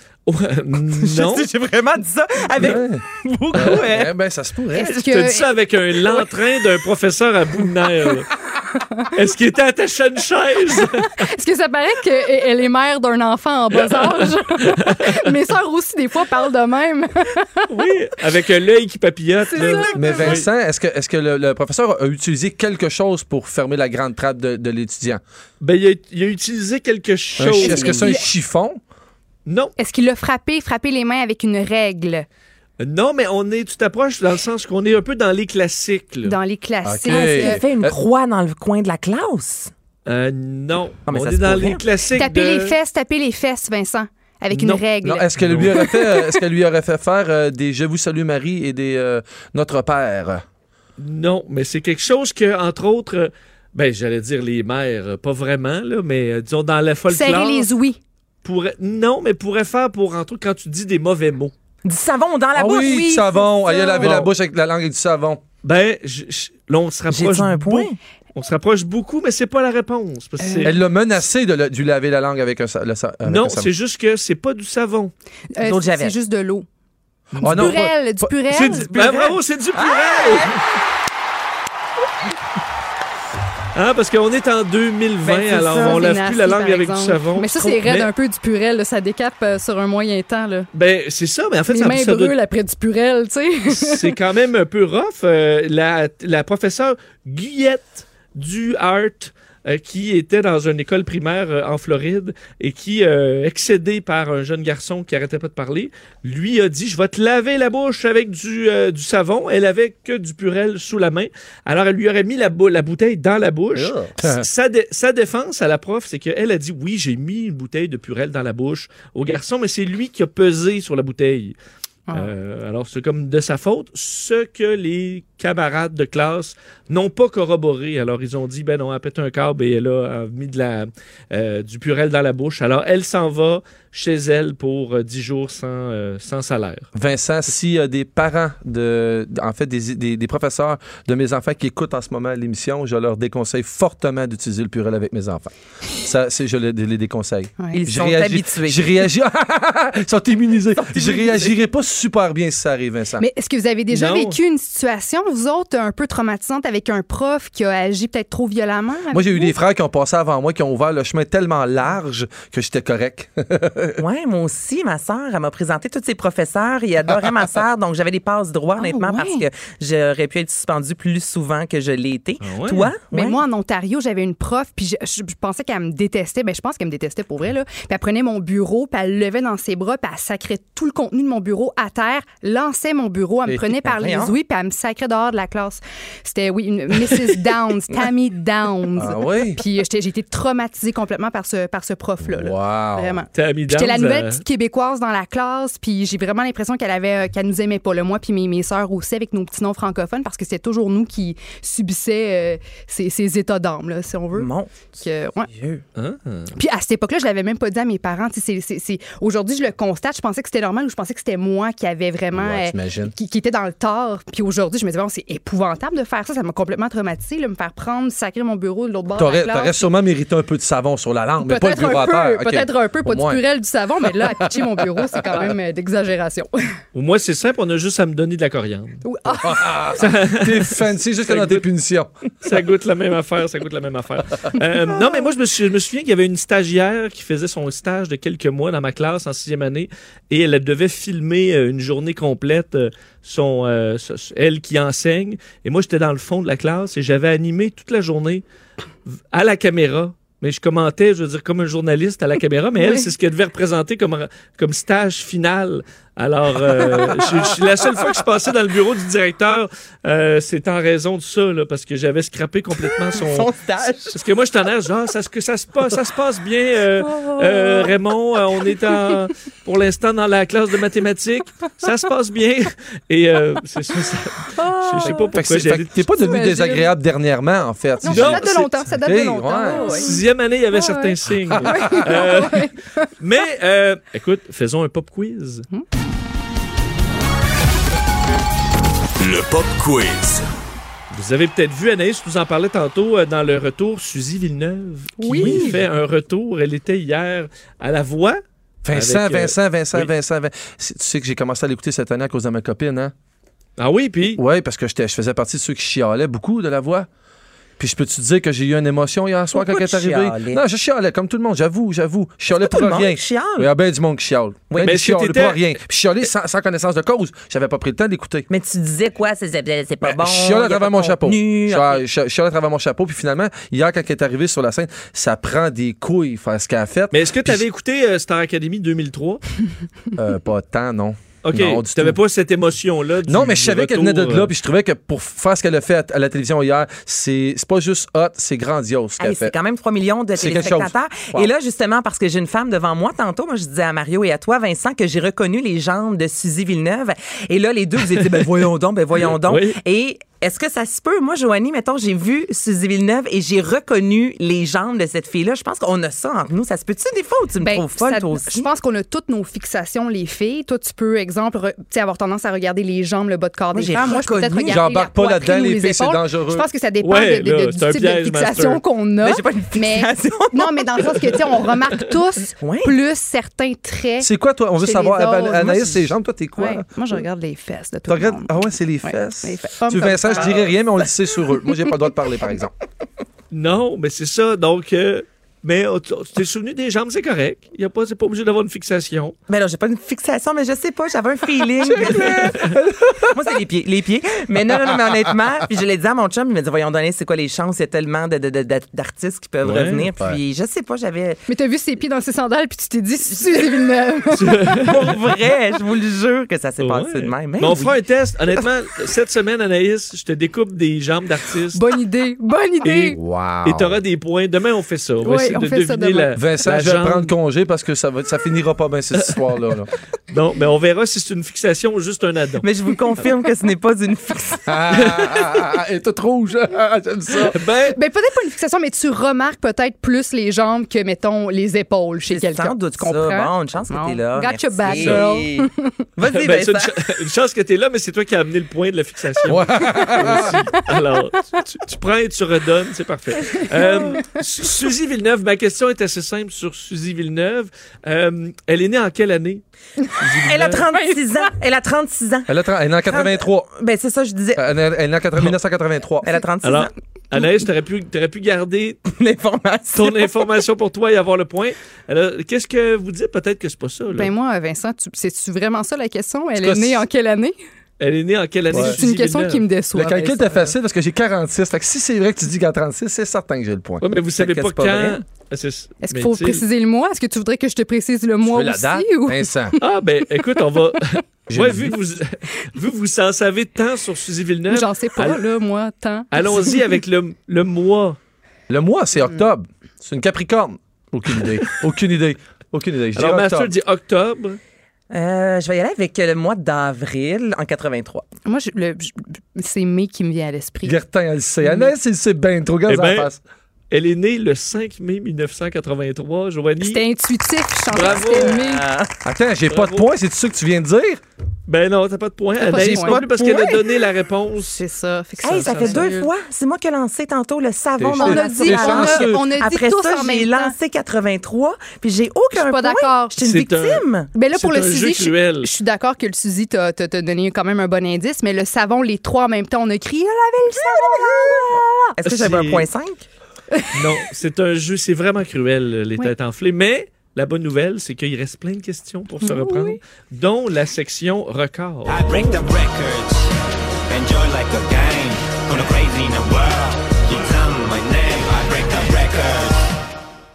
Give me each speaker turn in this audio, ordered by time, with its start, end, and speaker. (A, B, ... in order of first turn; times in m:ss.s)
0:00.3-0:01.5 A
0:00.8-0:04.1 B
0:02.6-0:03.0 C
0:03.6-0:05.0 C
0:04.7-0:05.5 D
0:05.1-0:08.3 A
0:09.1-0:11.2 A
0:10.9-0:17.7 D
0:13.9-0:15.0 A
0:17.7-0:20.5 A
0:19.5-0:20.4 D
0:19.8-0:25.2 C
0:25.6-0:28.0 A
0:27.4-0:28.8 C
0:27.6-0:28.3 D
0:29.4-0:29.7 A
0:29.8-0:32.2 D
0:32.8-0:36.4 A
0:36.2-0:37.6 D
0:36.8-0:37.9 C
0:37.1-0:39.7 B
0:40.0-0:42.8 A
0:41.1-0:41.8 B
0:42.1-0:46.4 D
0:44.5-0:45.8 A
0:45.0-0:50.4 C
0:51.0-0:57.7 A
0:57.1-0:58.0 D
0:58.4-1:01.5 A
1:01.8-1:03.0 B
1:02.6-1:05.4 C
1:02.6-1:04.2 D
1:04.0-1:04.3 A
1:05.6-1:10.8 A
1:07.1-1:08.0 B
1:10.4-1:10.7 D
1:10.6-1:13.7 C
1:13.2-1:15.1 A
1:15.5-1:16.6 D
1:15.6-1:16.2 B
1:17.3-1:17.8 A
1:17.4-1:19.3 C
1:17.4-1:19.0 D
1:18.5-1:20.6 A
1:19.0-1:20.5 B
1:23.7-1:28.1 A
1:25.2-1:26.1 B
1:25.8-1:30.7 D
1:30.7-1:32.3 A
1:31.7-1:34.1 D
1:33.7-2:01.6 A
1:53.7-1:54.4 C
2:02.1-2:16.9 A
2:16.9-2:33.2 C
2:27.7-2:28.9 B
2:30.9-2:31.5 B
2:33.2-2:39.5 D
2:33.9-2:34.4 A
2:39.1-2:44.0 C
2:44.0-2:53.4 B
2:48.8-2:49.4 D
2:52.4-2:52.9 A
2:53.1-3:25.5 D
3:03.9-3:04.4 B
3:09.0-3:09.6 C
3:12.2-3:13.2 C
3:13.3-3:14.4 A
3:24.3-3:24.9 B
3:25.5-3:25.8 B
3:26.0-3:26.5 A
3:26.5-3:39.9 D
3:32.3-3:33.1 C
3:39.1-3:43.5 C
3:41.4-3:46.6 D
3:44.1-3:45.4 C
3:46.9-3:49.0 A
3:49.0-3:49.9 D
3:49.4-3:52.1 C
3:49.9-3:51.6 A
3:52.4-4:08.4 A
4:09.2-4:23.5 A
4:23.1-4:24.2 B
4:24.1-4:36.0 A
4:27.1-4:27.9 B
4:34.6-4:35.2 D
4:35.0-4:40.1 C
4:36.1-4:36.9 D
4:38.0-4:43.1 D
4:38.1-4:38.4 A
4:39.8-4:45.6 A
4:41.6-4:42.0 C
4:49.2-4:50.4 E
4:51.1-4:58.4 A
4:55.2-4:55.8 D
4:55.3-4:55.8 C
4:58.8-5:03.1 C
4:58.9-5:00.1 A
5:03.8-5:04.4 A
5:04.3-5:07.1 C
5:07.8-5:18.5 C
5:09.5-5:10.6 B
5:12.5-5:13.7 B
5:14.7-5:15.0 B
5:14.8-5:15.8 A
5:18.5-5:22.0 B
5:20.0-5:27.6 C
5:27.1-5:29.4 A
5:30.2-5:32.2 C
5:31.4-5:34.5 A
5:33.3-5:39.6 C
5:39.2-5:58.7 B
5:40.3-5:41.5 C
5:49.3-5:49.8 A
5:57.6-6:20.7 D
6:03.7-6:04.8 B
6:04.7-6:06.7 C
6:07.0-6:08.8 A
6:09.2-6:11.4 B
6:12.6-6:13.0 B
6:14.2-6:16.9 C
6:18.1-6:22.7 C
6:23.5-6:29.4 A
6:29.5-6:32.7 B
6:31.8-6:33.5 C
6:33.3-6:41.4 B
6:39.6-6:40.1 A
6:39.6-6:40.4 C
6:41.5-6:44.8 D
6:44.3-6:45.0 A
6:44.8-6:47.9 B
6:46.8-6:51.8 A
6:51.7-6:53.2 D
6:52.8-6:57.3 A
6:53.1-6:54.0 C
6:55.2-6:56.4 D
6:56.3-6:59.9 C
7:00.3-7:02.6 A
7:02.6-7:04.8 B
7:04.7-7:07.6 C
7:05.0-7:05.6 A
7:07.5-7:08.0 A
7:07.9-7:16.0 D
7:12.3-7:17.0 B
7:14.9-7:15.3 A
7:16.3-7:29.6 A
7:19.4-7:20.6 C
7:20.2-7:20.5 D
7:23.5-7:24.2 D
7:30.2-7:30.9 A
7:30.4-7:34.6 B
7:32.5-7:33.7 C
7:34.6-7:36.3 C
7:36.2-7:36.9 B
7:36.6-7:39.0 A
7:39.1-7:40.3 B
7:39.9-7:44.3 A
7:44.1-7:47.6 D
7:46.6-7:47.0 A
7:48.0-7:49.7 A
7:48.7-7:50.7 D
7:48.7-7:49.0 C
7:49.9-7:55.2 C
7:54.0-7:56.6 A
7:56.0-7:59.8 D
7:58.4-7:59.8 C
7:59.8-8:05.4 A
8:01.5-8:01.9 C
8:04.7-8:06.8 D
8:06.3-8:08.2 A
8:08.7-8:13.7 C
8:13.2-8:14.6 A
8:15.1-8:18.2 B
8:18.4-8:21.0 D
8:20.8-8:23.4 C
8:22.9-8:23.3 A
8:23.9-8:27.0 A
8:26.8-8:28.8 D
8:27.9-8:28.6 A
8:28.3-8:29.1 B
8:29.2-8:31.2 C
8:29.7-8:30.1 A
8:31.7-8:34.8 A
8:32.6-8:33.3 D
8:32.8-8:33.8 B
8:34.7-8:36.3 D
8:35.4-8:36.1 A
8:35.4-8:44.3 B
8:38.0-8:39.4 C
8:38.2-8:40.8 D
8:42.5-8:43.4 D
8:43.4-8:45.7 A
8:44.3-8:51.9 D
8:50.8-8:53.2 B
8:52.2-8:52.9 A
8:53.9-9:02.7 A
8:59.4-9:00.0 D
9:02.1-9:03.4 E
9:04.1-9:09.7 E